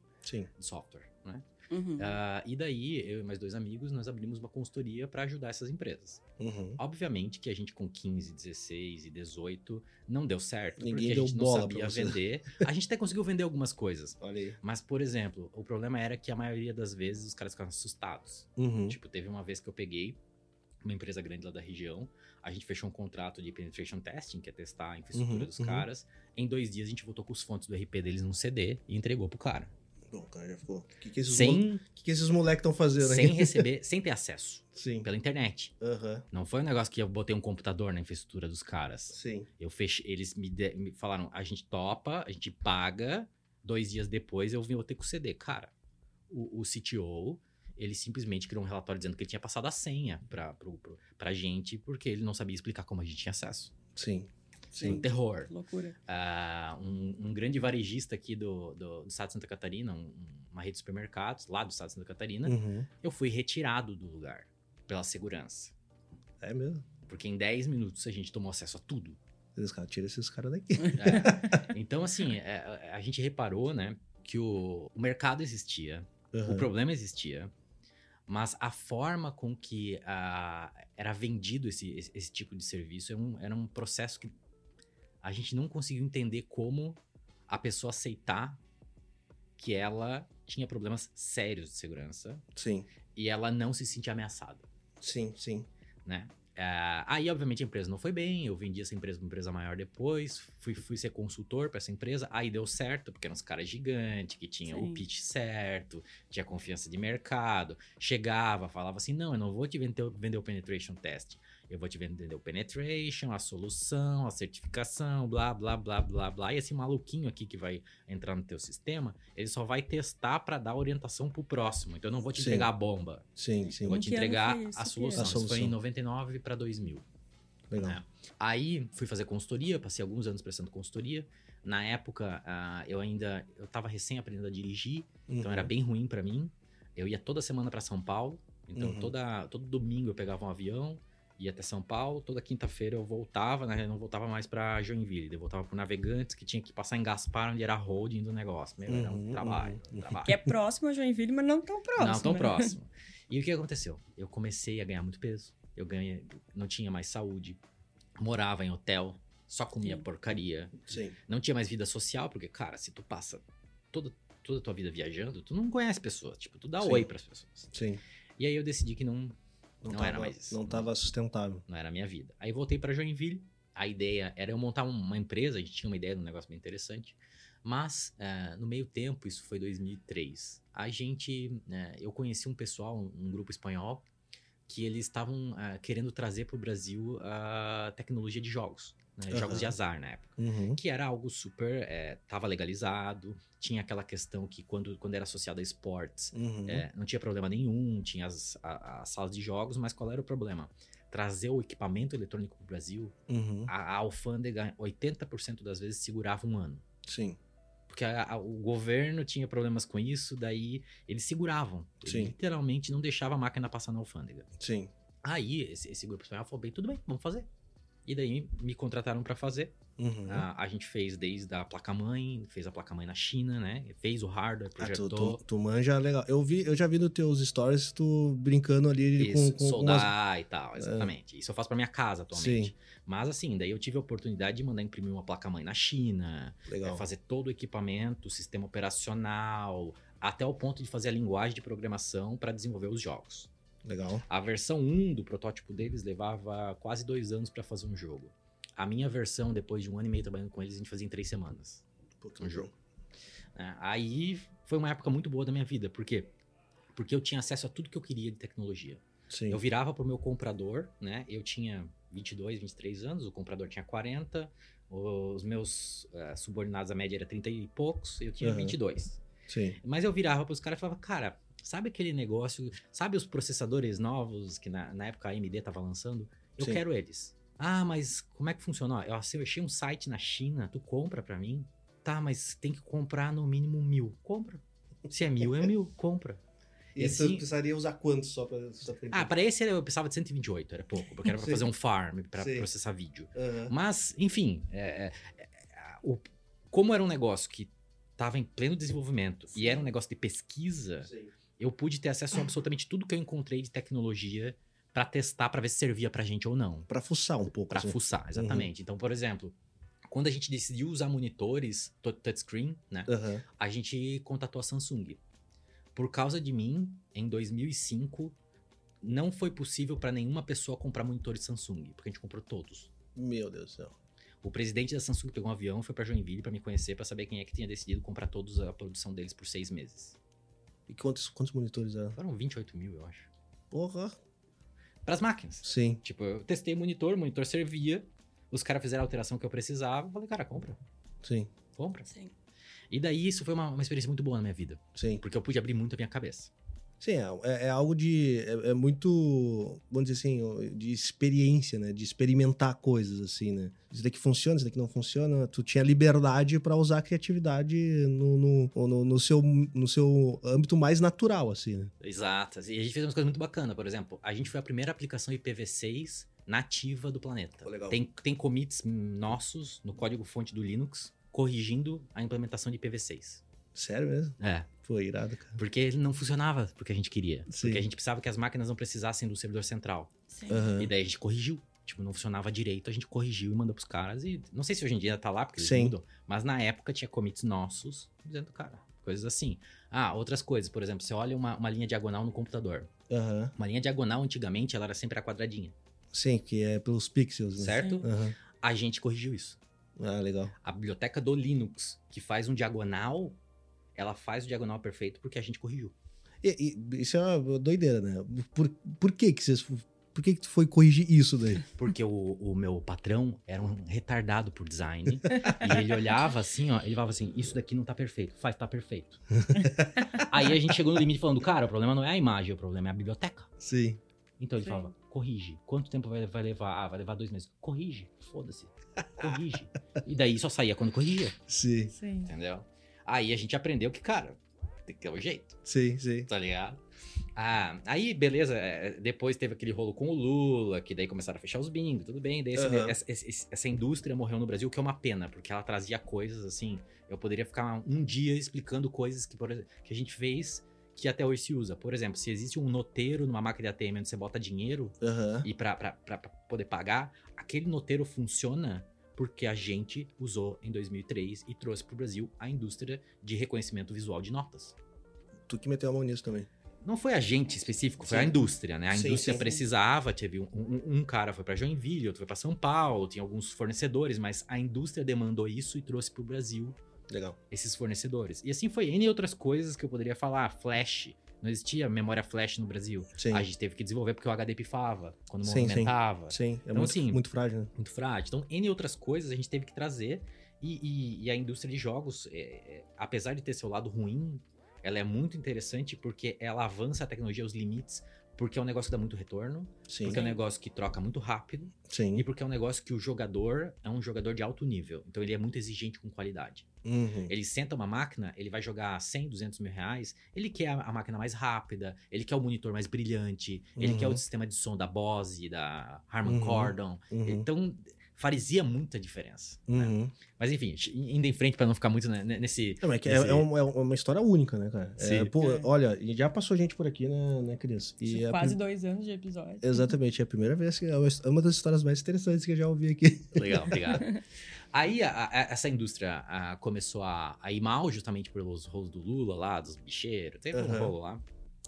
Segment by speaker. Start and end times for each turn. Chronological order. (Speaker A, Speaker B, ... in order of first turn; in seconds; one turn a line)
Speaker A: 0.2-0.5
Speaker B: 0.6-1.5
Speaker C: 1.7-2.2
Speaker B: 2.0-6.2
Speaker A: 6.4-6.8
Speaker B: 6.8-20.2
Speaker A: 10.8-12.6
Speaker A: 14.2-14.6
Speaker A: 18.6-19.0
Speaker B: 20.8-29.7
Speaker A: 25.1-25.9
Speaker A: 30.1-33.7
Speaker B: 31.3-31.8
Speaker B: 33.0-35.8
Speaker A: 34.8-35.1
Speaker A: 35.8-36.3
Speaker B: 36.3-45.7
Speaker A: 39.1-39.5
Speaker B: 46.3-53.7
Speaker A: 54.0-55.0
Speaker B: 54.8-55.5
Speaker C: 54.9-56.0
Speaker B: 56.1-65.7
Speaker A: 62.5-62.9
Speaker A: 66.4-66.8
Speaker B: 67.1-69.2
Speaker A: 69.6-71.6
Speaker B: 70.9-77.5
Speaker A: 76.3-76.7
Speaker B: 78.3-84.3
Speaker B: 85.2-88.6
Speaker B: 89.6-92.5
Speaker A: 92.5-92.9
Speaker B: 93.2-94.7
Speaker A: 95.0-95.7
Speaker B: 96.1-123.3
Speaker C: 104.7-105.0
Speaker A: 122.3-122.7
Speaker A: 123.4-124.0
Speaker B: 123.8-127.1
Speaker C: 123.9-125.3
Speaker A: 125.2-125.8
Speaker A: 127.7-128.0
Speaker B: 127.8-150.4
Speaker A: 135.3-135.7
Speaker A: 138.8-139.1
Speaker A: 148.9-150.5
Speaker C: 150.2-152.7
Speaker B: 152.0-157.6
Speaker B: 158.2-167.7
Speaker A: 160.9-161.2
Speaker A: 166.8-167.1
Speaker A: 167.7-168.0
Speaker B: 168.4-169.4
Speaker A: 169.8-171.6
Speaker B: 169.9-170.9
Speaker B: 171.7-184.1
Speaker B: 184.7-206.8
Speaker A: 189.3-189.8
Speaker A: 190.4-190.8
Speaker A: 196.3-196.9
Speaker A: 203.3-203.7
Speaker A: 207.1-207.4
Speaker B: 207.9-214.5
Speaker A: 212.1-212.3
Speaker A: 214.6-214.9
Speaker B: 215.2-217.5
Speaker B: 218.1-225.4
Speaker A: 220.0-220.5
Speaker A: 224.8-230.1
Speaker B: 229.2-243.5
Speaker A: 230.8-231.1
Speaker A: 232.3-232.7
Speaker A: 236.7-237.0
Speaker A: 243.8-244.2
Speaker B: 244.3-251.8
Speaker A: 252.2-252.7
Speaker B: 252.4-252.7
Speaker B: 253.6-256.3
Speaker B: 256.9-269.2
Speaker A: 259.3-259.6
Speaker A: 268.4-268.8
Speaker A: 269.5-269.8
Speaker B: 269.8-286.4
Speaker A: 287.0-289.3
Speaker B: 287.0-287.5
Speaker B: 289.1-306.9
Speaker A: 291.3-291.6
Speaker A: 292.4-292.7
Speaker A: 293.4-293.7
Speaker A: 306.9-308.7
Speaker B: 307.7-309.6
Speaker B: 310.1-315.2
Speaker A: 313.1-313.4
Speaker B: 315.9-318.4
Speaker B: 319.0-322.9
Speaker A: 323.1-323.9
Speaker B: 324.4-330.2
Speaker A: 330.9-332.2
Speaker B: 332.1-333.3
Speaker A: 333.7-334.2
Speaker B: 335.1-340.8
Speaker A: 335.6-336.0
Speaker A: 341.2-341.5
Speaker B: 341.8-342.1
Speaker C: 342.1-342.3
Speaker B: 342.9-346.5
Speaker A: 344.9-345.2
Speaker A: 347.0-361.9
Speaker B: 362.0-373.4
Speaker A: 367.6-368.0
Speaker A: 373.8-375.6
Speaker B: 374.4-374.7
Speaker B: 375.6-392.9
Speaker A: 377.5-377.9
Speaker C: 380.3-380.6
Speaker A: 380.5-380.9
Speaker A: 385.6-385.9
Speaker A: 393.1-393.5
Speaker B: 393.6-395.8
Speaker A: 396.1-398.4
Speaker B: 397.6-399.6
Speaker C: 397.7-398.1
Speaker A: 400.0-400.5
Speaker B: 400.6-403.4
Speaker B: 404.0-406.0
Speaker A: 406.4-411.6
Speaker B: 411.8-419.2
Speaker A: 419.4-420.1
Speaker B: 420.1-423.5
Speaker A: 423.6-424.0
Speaker B: 424.4-431.4
Speaker C: 424.6-424.9
Speaker A: 431.5-431.9
Speaker C: 431.9-432.3
Speaker B: 432.2-435.6
Speaker A: 435.7-436.3
Speaker B: 436.3-436.8
Speaker B: 437.4-464.8
Speaker A: 442.6-443.0
Speaker A: 455.0-455.5
Speaker A: 465.5-466.5
Speaker B: 466.8-476.8
Speaker A: 468.1-468.4
Speaker A: 468.9-469.5
Speaker A: 477.1-477.4
Speaker B: 477.5-487.2
Speaker A: 483.2-483.5
Speaker A: 485.4-487.7
Speaker B: 487.8-506.7
Speaker A: 499.9-500.2
Speaker C: 500.1-500.4
Speaker A: 501.9-502.2
Speaker A: 506.8-507.3
Speaker B: 507.3-523.5
Speaker A: 513.8-514.2
Speaker A: 516.2-517.5
Speaker A: 519.7-520.1
Speaker A: 522.8-528.6
Speaker B: 525.0-525.3
Speaker C: 525.4-525.7
Speaker C: 528.0-529.9
Speaker A: 529.6-533.8
Speaker B: 533.3-534.2
Speaker B: 534.7-541.2
Speaker A: 540.5-540.9